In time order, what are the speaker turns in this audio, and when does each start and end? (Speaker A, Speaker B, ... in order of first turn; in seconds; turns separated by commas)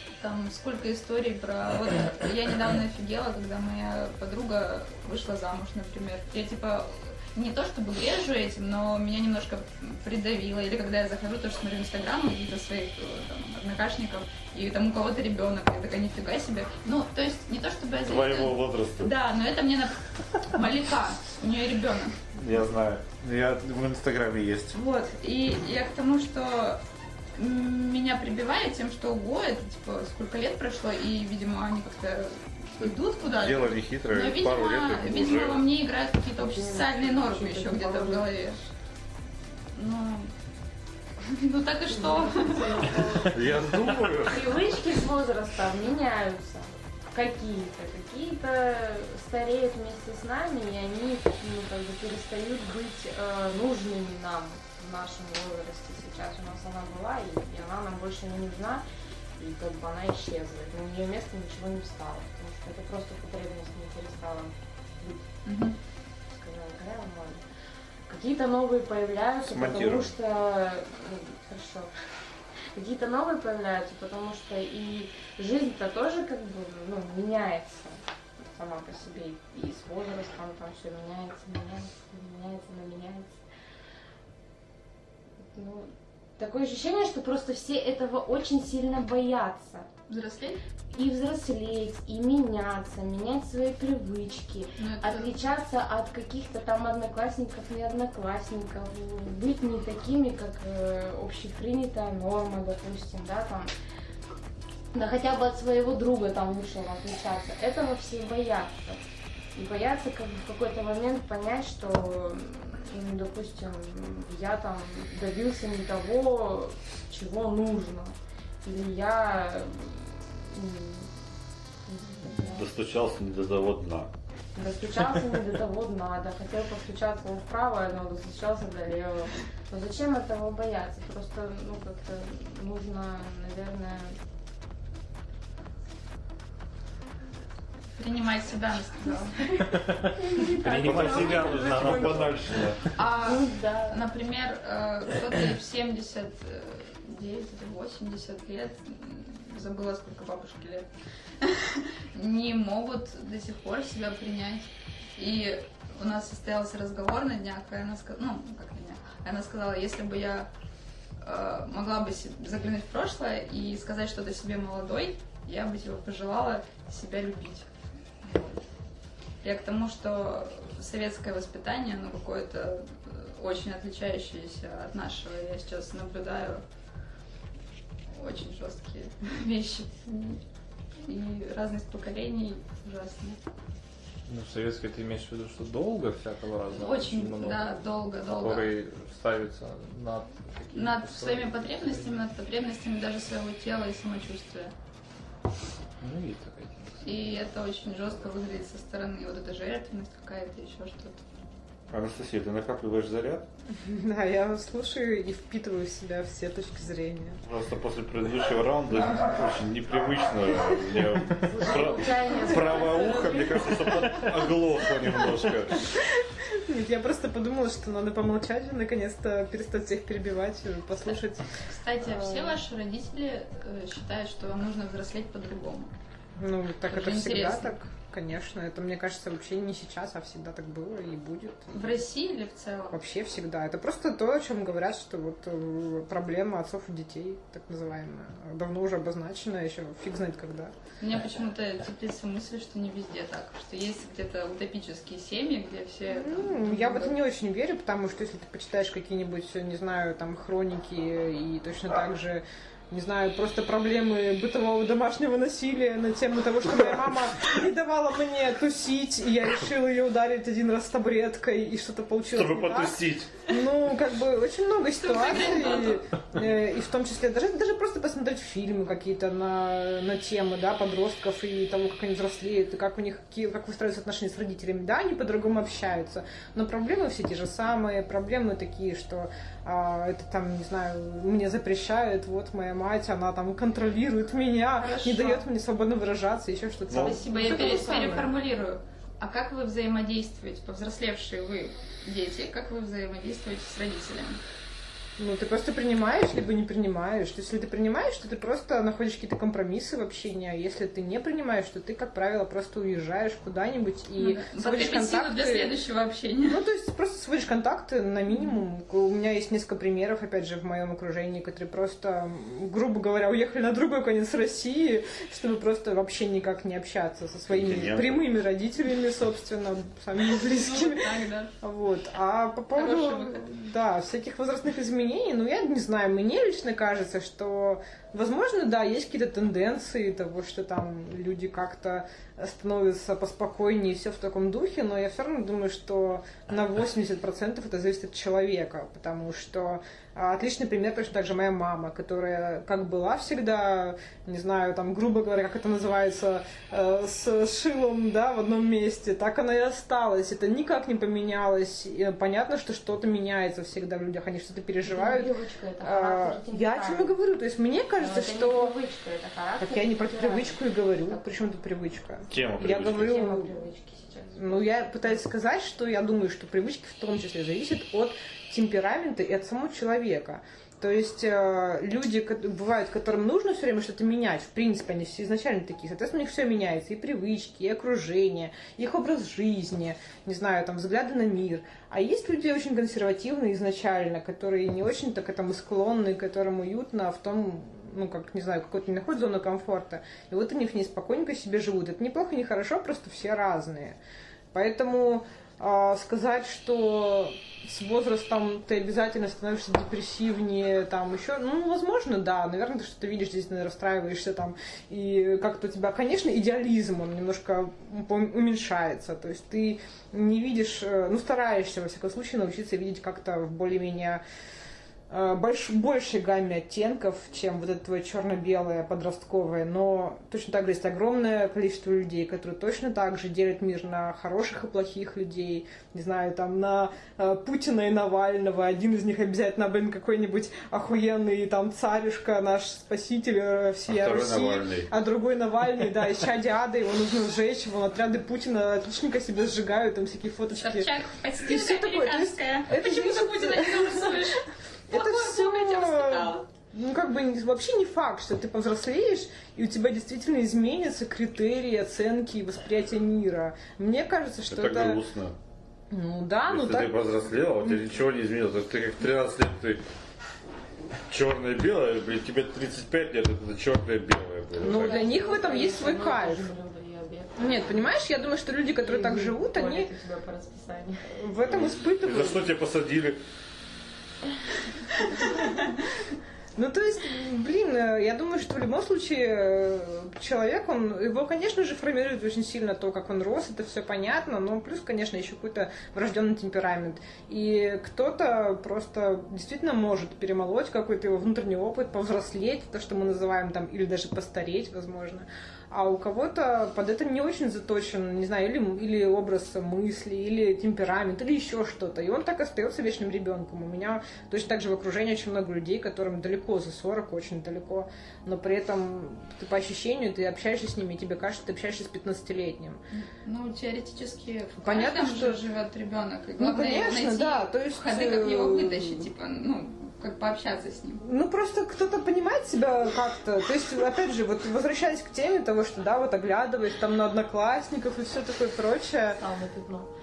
Speaker A: 0.2-22.1, Speaker B: 18.0-19.1, Speaker B: 22.3-24.8, Speaker A: 24.8-26.8, Speaker A: 27.4-38.6, Speaker B: 32.8-35.6, Speaker C: 36.4-38.5, Speaker A: 39.7-40.3, Speaker A: 41.2-43.1, Speaker C: 41.9-43.4, Speaker B: 43.3-44.7, Speaker C: 44.2-58.8, Speaker C: 59.4-65.2, Speaker A: 65.5-65.8, Speaker C: 66.3-67.4, Speaker C: 68.1-71.9, Speaker B: 69.5-70.1, Speaker C: 72.7-83.4, Speaker C: 85.5-89.9, Speaker A: 90.1-90.6, Speaker C: 90.9-103.7, Speaker A: 94.8-95.3, Speaker C: 104.9-109.0, Speaker C: 109.5-121.1, Speaker C: 121.8-122.7, Speaker B: 122.4-124.1, Speaker C: 124.5-134.2, Speaker A: 138.0-139.6, Speaker C: 139.5-142.3, Speaker D: 139.6-142.7, Speaker B: 140.8-142.8, Speaker A: 142.9-150.9, Speaker C: 143.2-144.0, Speaker A: 151.4-160.5, Speaker A: 161.2-167.7, Speaker A: 168.2-168.6, Speaker A: 169.4-176.6, Speaker A: 178.1-180.4, Speaker A: 181.0-183.4, Speaker D: 184.3-187.7, Speaker A: 186.7-188.7, Speaker D: 188.3-192.2, Speaker A: 190.7-194.7, Speaker D: 196.0-197.1, Speaker A: 197.0-201.2, Speaker B: 201.9-203.5, Speaker E: 203.8-207.4, Speaker B: 207.4-215.8, Speaker C: 211.3-214.1, Speaker A: 212.7-213.1, Speaker E: 216.4-221.5, Speaker A: 221.6-225.9, Speaker E: 222.0-222.6, Speaker E: 226.4-231.7, Speaker A: 226.9-227.7, Speaker A: 231.7-232.9, Speaker E: 232.9-240.7, Speaker A: 241.0-247.1, Speaker E: 246.1-288.3, Speaker B: 262.3-263.3, Speaker A: 265.0-266.0, Speaker A: 284.8-285.5, Speaker B: 286.9-287.2, Speaker A: 286.9-294.4, Speaker E: 295.2-305.8, Speaker A: 304.2-306.6, Speaker E: 306.5-358.7, Speaker A: 308.3-308.6, Speaker B: 317.5-318.2, Speaker A: 320.5-321.5, Speaker A: 322.7-323.5, Speaker C: 354.8-357.1, Speaker C: 358.0-361.2, Speaker E: 359.6-363.6, Speaker B: 362.3-363.3, Speaker C: 363.0-364.9, Speaker E: 364.4-394.0, Speaker E: 394.5-414.2, Speaker E: 415.1-444.4, Speaker B: 433.9-434.9, Speaker A: 440.6-446.4, Speaker E: 444.9-455.0, Speaker B: 454.5-455.4, Speaker E: 455.9-456.9, Speaker B: 456.5-459.8, Speaker B: 461.1-465.1, Speaker E: 464.6-466.5, Speaker C: 464.6-467.7, Speaker E: 467.4-469.9, Speaker C: 468.8-471.1, Speaker E: 471.1-472.4, Speaker B: 471.5-473.2, Speaker E: 476.6-512.8, Speaker A: 512.9-521.0, Speaker E: 514.6-515.4, Speaker E: 516.4-519.1, Speaker E: 521.0-529.2, Speaker C: 529.2-529.9